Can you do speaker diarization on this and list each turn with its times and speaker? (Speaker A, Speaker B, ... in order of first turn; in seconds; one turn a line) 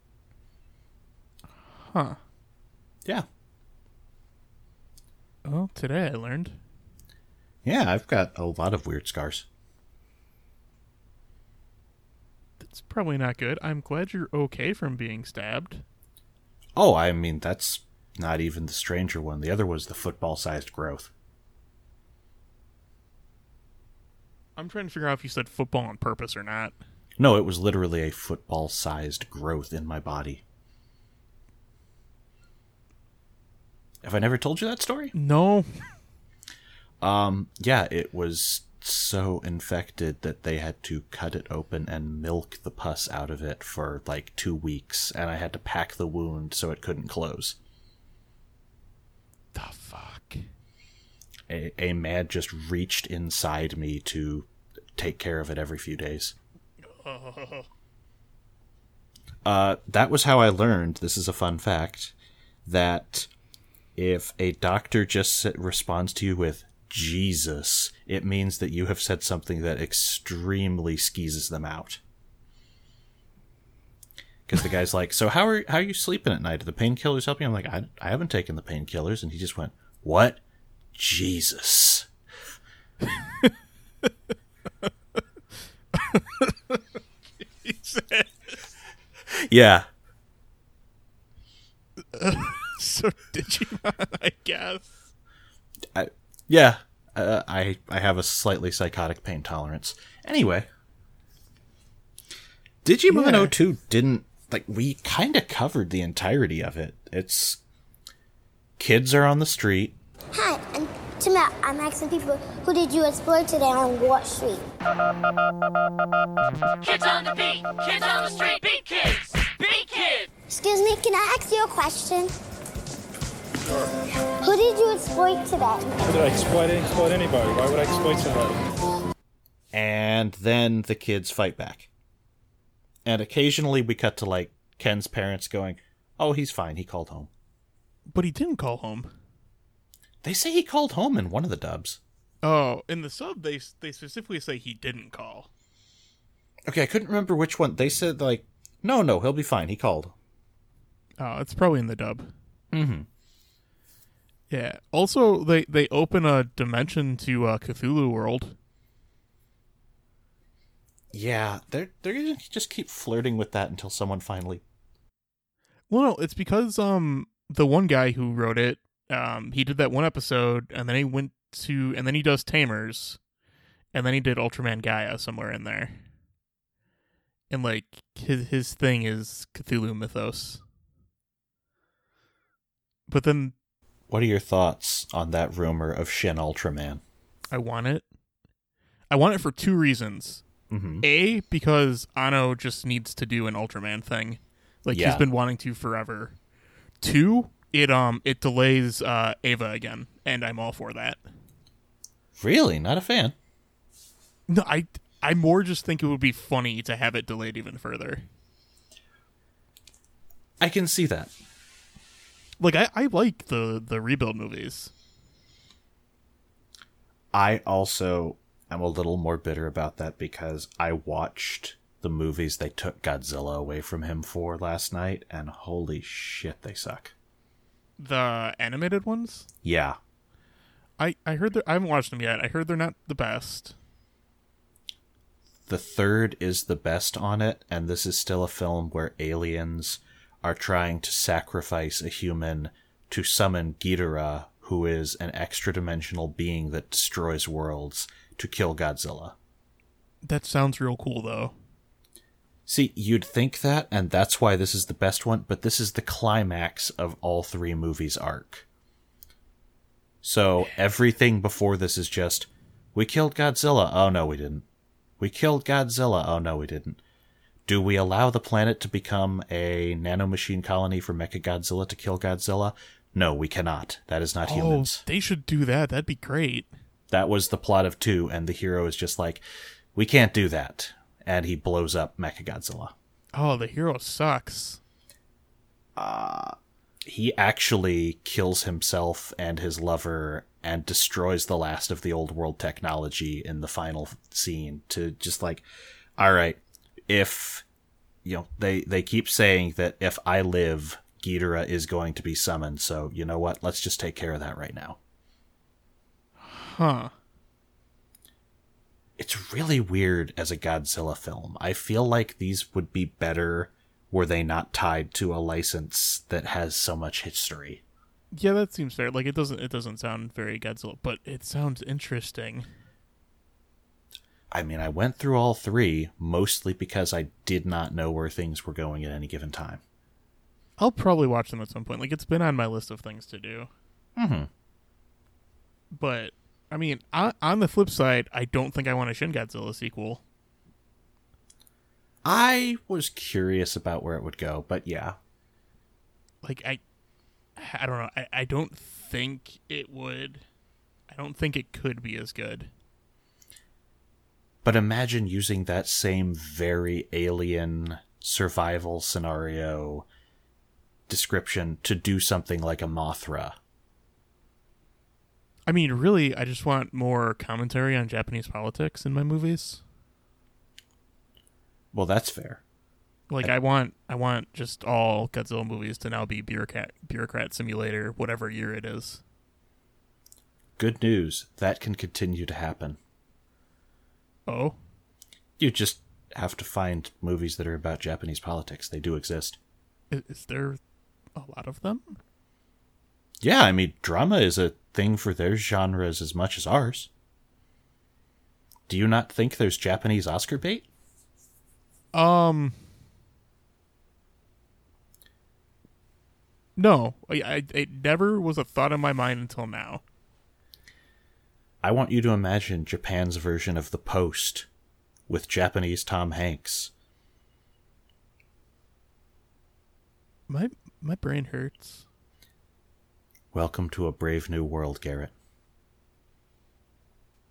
Speaker A: 1.6-2.2
Speaker A: 5.5-6.6
Speaker B: 7.7-9.5
Speaker A: 12.6-15.8
Speaker B: 16.8-21.1
Speaker A: 24.6-26.8
Speaker B: 27.2-30.4
Speaker B: 34.0-35.1
Speaker A: 35.1-35.9
Speaker B: 37.0-47.6
Speaker A: 49.5-50.4
Speaker B: 51.5-56.4
Speaker A: 56.8-57.7
Speaker B: 59.5-62.1
Speaker B: 62.7-63.3
Speaker B: 64.0-72.0
Speaker B: 74.5-80.4
Speaker B: 80.9-82.1
Speaker A: 83.0-84.1
Speaker A: 85.9-88.7
Speaker B: 89.3-89.9
Speaker A: 92.1-94.9
Speaker B: 95.9-100.7
Speaker B: 102.8-107.6
Speaker A: 103.1-103.5
Speaker B: 108.8-110.0
Speaker C: 110.3-114.6
Speaker D: 116.8-120.3
Speaker C: 120.5-122.3
Speaker C: 124.4-126.0
Speaker E: 126.1-128.6
Speaker B: 129.7-131.9
Speaker B: 133.1-137.3
Speaker A: 138.1-139.1
Speaker B: 140.2-142.0
Speaker A: 142.4-145.5
Speaker B: 146.7-150.1
Speaker A: 151.2-152.3
Speaker B: 152.7-153.1
Speaker A: 154.5-158.6
Speaker B: 161.1-164.6
Speaker A: 165.9-173.2
Speaker A: 173.9-176.0
Speaker A: 177.5-180.6
Speaker A: 183.1-183.6
Speaker B: 184.1-187.0
Speaker A: 187.5-188.1
Speaker A: 189.1-190.4
Speaker B: 190.7-191.1
Speaker A: 191.0-196.4
Speaker B: 194.9-195.2
Speaker A: 197.0-201.2
Speaker B: 202.4-203.3
Speaker A: 204.5-208.3
Speaker B: 210.6-211.3
Speaker A: 212.6-214.9
Speaker B: 217.3-227.1
Speaker A: 228.0-229.5
Speaker B: 229.6-230.0
Speaker A: 231.0-233.8
Speaker B: 235.7-249.3
Speaker A: 250.2-251.6
Speaker B: 252.7-258.6
Speaker B: 260.2-264.6
Speaker B: 265.2-267.0
Speaker B: 267.7-275.0
Speaker A: 274.4-276.7
Speaker B: 277.1-279.4
Speaker B: 279.9-282.9
Speaker A: 283.3-284.8
Speaker B: 286.0-295.6
Speaker B: 296.2-297.6
Speaker B: 298.2-305.0
Speaker A: 306.4-307.1
Speaker B: 309.2-317.8
Speaker A: 318.3-322.7
Speaker B: 324.5-329.8
Speaker A: 330.8-333.7
Speaker B: 334.2-334.5
Speaker A: 335.9-340.2
Speaker B: 342.2-345.2
Speaker A: 346.4-346.8
Speaker A: 347.6-350.4
Speaker A: 351.1-352.7
Speaker B: 354.6-360.1
Speaker B: 361.1-363.6
Speaker A: 365.7-369.8
Speaker B: 371.9-372.6
Speaker A: 373.3-379.2
Speaker B: 380.8-383.0
Speaker A: 384.5-384.8
Speaker B: 385.6-389.6
Speaker A: 390.1-390.8
Speaker A: 391.4-392.2
Speaker B: 393.4-397.1
Speaker B: 398.9-400.9
Speaker A: 402.1-402.8
Speaker A: 406.8-410.0
Speaker B: 411.8-414.7
Speaker B: 415.3-416.9
Speaker A: 420.5-422.1
Speaker B: 423.5-425.3